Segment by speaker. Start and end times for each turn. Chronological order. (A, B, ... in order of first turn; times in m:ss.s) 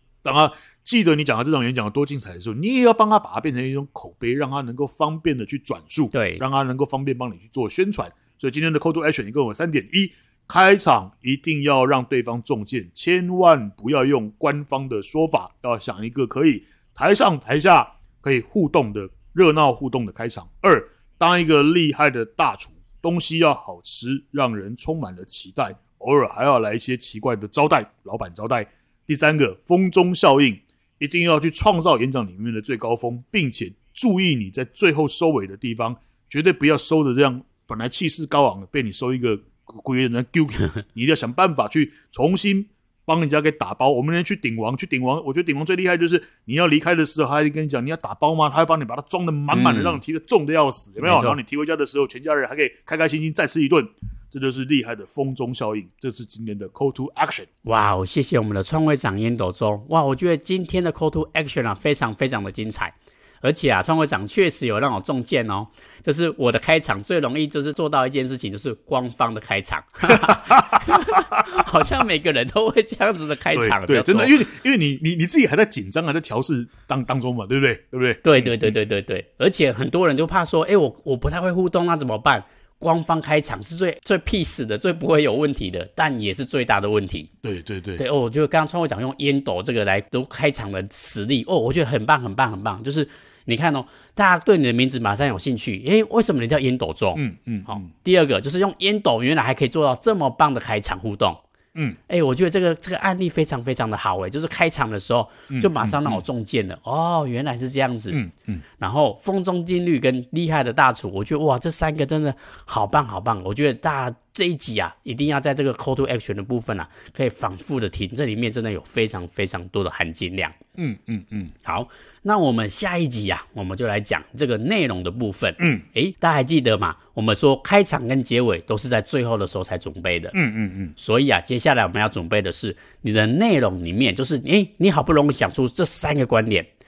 0:00.2-0:57.5 A
0:06.1-0:06.4 B
0:49.5-0:50.0 B
0:51.0-0:51.4 B
0:57.6-1:14.4 B
1:10.1-1:11.7 A
1:13.6-1:18.7 A
1:18.2-1:27.3 B
1:27.4-1:28.0 A
1:28.0-1:41.4 B
1:37.2-1:37.9 A
1:42.1-1:48.2 B
1:45.5-1:46.2 A
1:48.1-1:48.6 A
1:48.8-2:00.6 B
2:00.8-2:01.5 A
2:01.6-2:10.4 B
2:05.6-2:05.8 A
2:10.3-2:10.9 A
2:11.0-2:16.7 B